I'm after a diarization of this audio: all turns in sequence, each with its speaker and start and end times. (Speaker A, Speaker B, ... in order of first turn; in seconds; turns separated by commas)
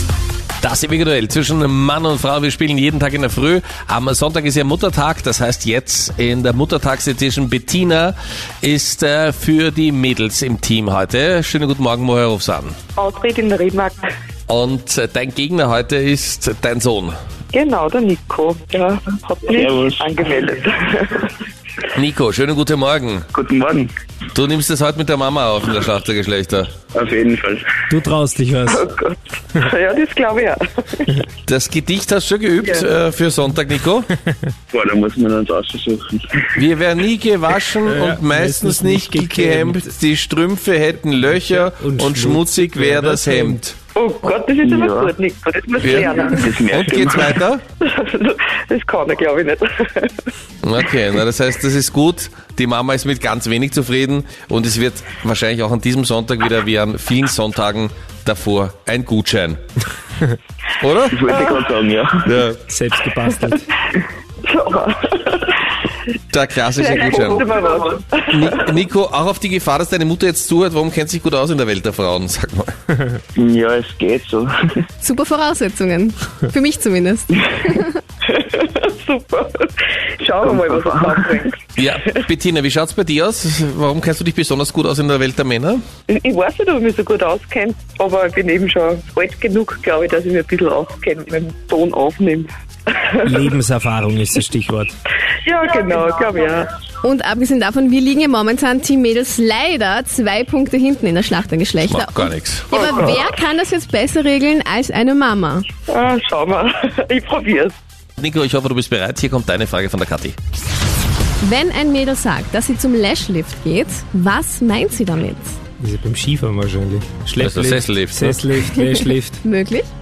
Speaker A: 0.6-12.8, Speaker B: 13.0-14.1, Speaker A: 14.5-17.2, Speaker B: 17.5-21.3, Speaker C: 19.5-20.4, Speaker A: 21.9-23.3, Speaker C: 23.3-23.9, Speaker A: 24.3-26.7, Speaker C: 26.9-27.7, Speaker D: 27.9-28.9, Speaker B: 28.7-31.2, Speaker A: 31.5-34.1, Speaker C: 34.7-36.6, Speaker A: 36.6-43.8, Speaker D: 37.8-39.9, Speaker D: 41.2-43.7, Speaker B: 44.0-47.3, Speaker C: 44.6-45.1, Speaker A: 45.8-46.1, Speaker C: 45.9-47.4, Speaker A: 46.7-47.6, Speaker B: 47.8-50.3, Speaker A: 50.6-59.6, Speaker A: 60.8-61.2, Speaker C: 61.1-62.3, Speaker B: 61.3-61.6, Speaker A: 62.2-62.6, Speaker D: 62.7-63.7, Speaker B: 63.3-65.7, Speaker A: 66.3-67.5, Speaker B: 66.8-68.7, Speaker A: 68.3-72.7, Speaker C: 73.3-74.5, Speaker E: 75.0-78.0, Speaker B: 78.3-82.1, Speaker C: 80.4-81.5, Speaker A: 81.8-85.8, Speaker B: 86.1-92.5, Speaker D: 93.2-94.9, Speaker B: 95.4-96.7, Speaker E: 97.0-105.7, Speaker A: 101.8-102.8, Speaker B: 102.7-103.3, Speaker B: 105.9-107.7, Speaker A: 108.2-110.4, Speaker E: 111.4-115.6, Speaker D: 115.8-119.4, Speaker A: 117.4-118.5, Speaker E: 118.7-119.9